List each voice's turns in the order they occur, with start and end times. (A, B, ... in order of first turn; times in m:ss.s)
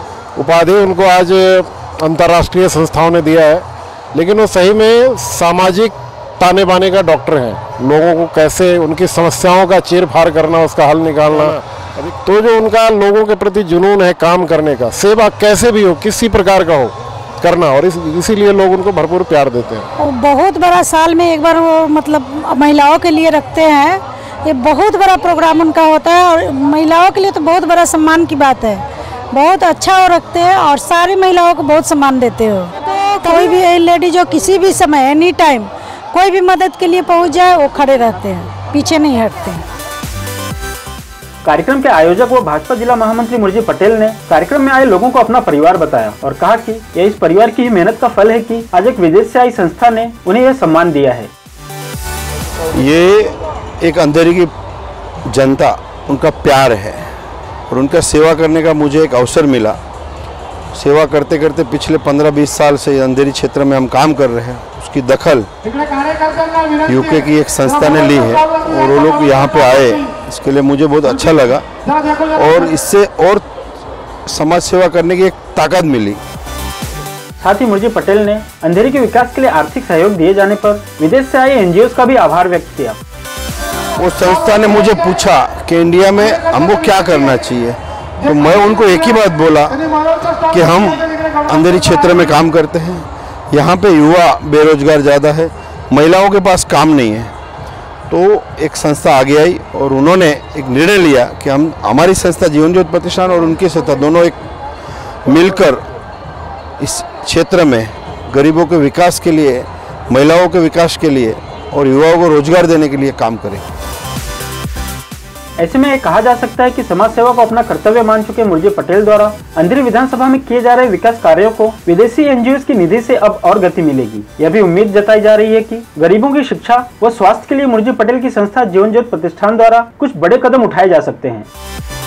0:00.4-0:19.9 A
0:20.0-0:39.6 B
0:41.4-0:51.3 C
0:52.8-0:54.5 D
0:55.3-0:57.0 D
0:57.7-0:59.8 D
1:00.8-1:05.5 D
1:06.9-1:11.6 D
1:12.4-1:13.4 D
1:14.3-1:16.2 D
1:17.4-1:23.0 C
1:24.0-1:29.8 D
1:30.5-1:37.3 D
1:38.1-1:44.4 D
1:45.3-1:45.8 D
1:46.8-1:53.6 D
1:55.6-2:11.5 C